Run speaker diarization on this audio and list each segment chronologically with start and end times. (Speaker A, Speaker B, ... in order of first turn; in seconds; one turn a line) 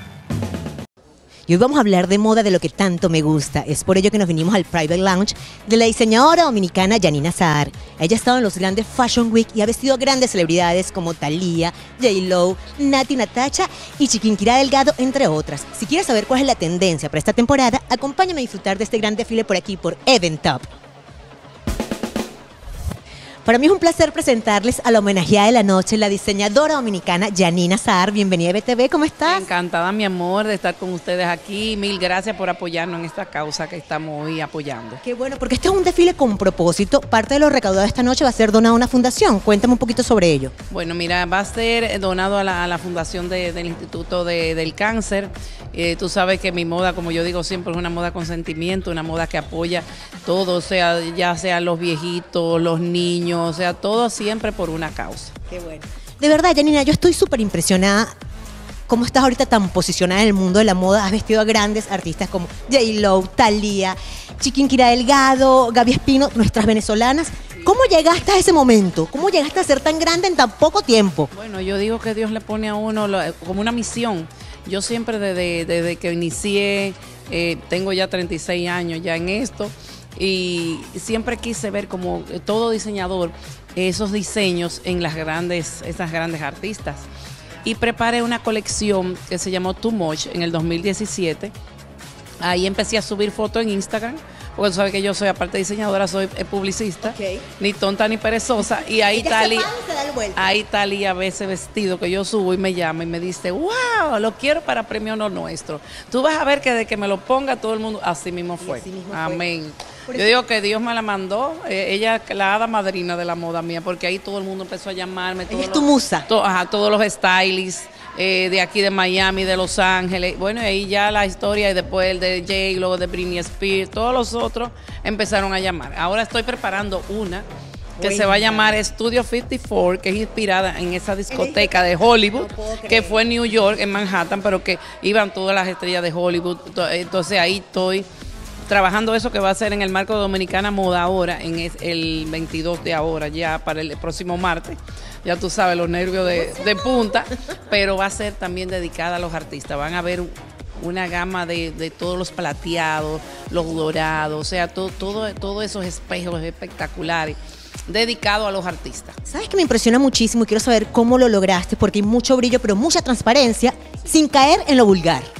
Speaker A: 1.5-20.7
Speaker A: 23.4-29.5
Speaker B: 29.3-35.0
Speaker A: 35.0-40.5
Speaker B: 40.7-55.4
Speaker A: 55.5-58.1
Speaker A: 58.9-71.3
Speaker B: 71.3-87.1
Speaker B: 87.6-91.5
Speaker B: 92.4-99.7
Speaker A: 97.0-97.4
Speaker A: 99.1-100.5
Speaker B: 100.3-127.5
Speaker A: 108.6-109.4
Speaker A: 110.1-110.4
Speaker A: 115.5-116.3
Speaker A: 128.0-128.8
Speaker B: 128.0-138.1
Speaker A: 131.3-133.2
Speaker B: 138.7-157.4
Speaker B: 157.9-159.2
Speaker A: 159.3-165.3